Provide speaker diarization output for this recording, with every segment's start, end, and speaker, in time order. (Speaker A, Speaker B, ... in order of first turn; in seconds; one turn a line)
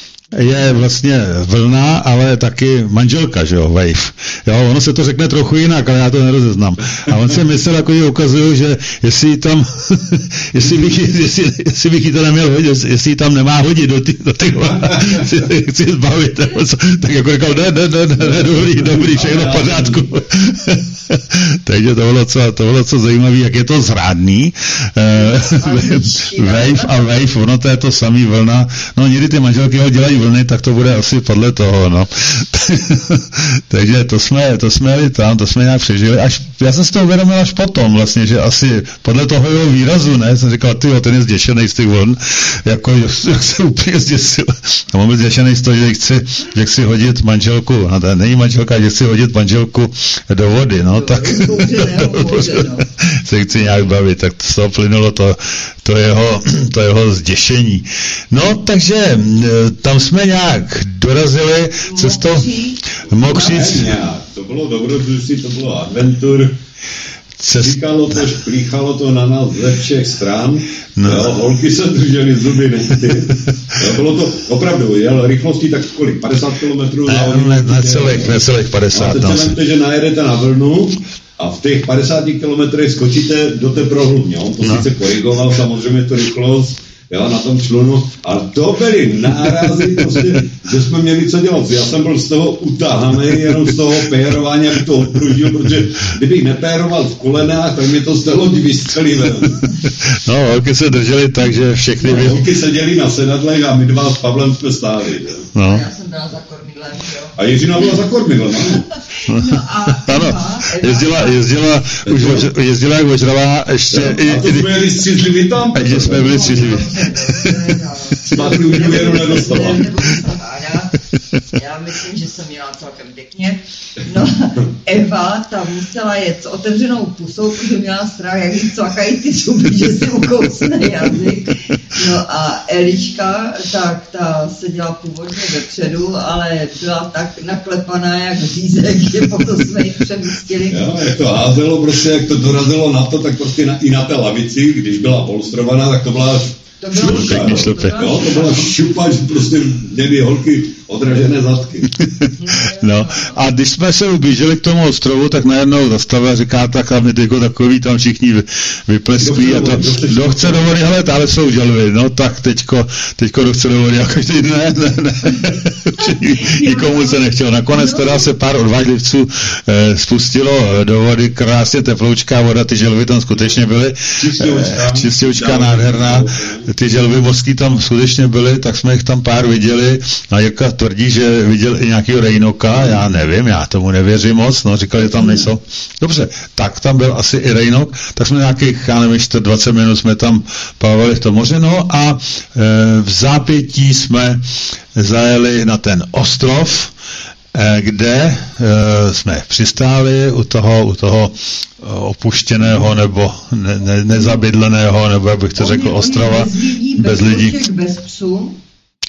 Speaker A: 0.3-64.0
Speaker B: 14.6-15.4
Speaker B: 18.2-20.1
Speaker C: 25.1-27.0
Speaker C: 50.9-52.9
Speaker C: 61.8-62.8
Speaker B: 63.1-66.6
Speaker A: 67.4-68.2
Speaker B: 67.6-78.4
Speaker A: 71.0-71.4
Speaker A: 77.0-79.6
Speaker B: 78.9-99.6
Speaker A: 84.6-84.9
Speaker A: 99.8-102.5
Speaker B: 102.0-105.5
Speaker A: 105.5-105.9
Speaker C: 105.6-107.4
Speaker B: 107.4-108.9
Speaker C: 109.1-111.4
Speaker A: 109.3-115.0
Speaker B: 112.0-112.5
Speaker B: 113.9-116.7
Speaker A: 115.7-117.8
Speaker C: 116.1-121.0
Speaker B: 118.2-119.8
Speaker C: 121.5-140.9
Speaker B: 140.7-151.9
Speaker C: 146.8-148.7
Speaker A: 146.9-148.1
Speaker A: 152.0-194.4
Speaker C: 152.4-153.4
Speaker B: 159.2-160.7
Speaker C: 166.0-167.2
Speaker C: 167.7-168.3
Speaker B: 174.2-176.7
Speaker B: 182.8-183.0
Speaker A: 194.9-196.9
Speaker A: 197.5-207.6
Speaker C: 205.6-208.6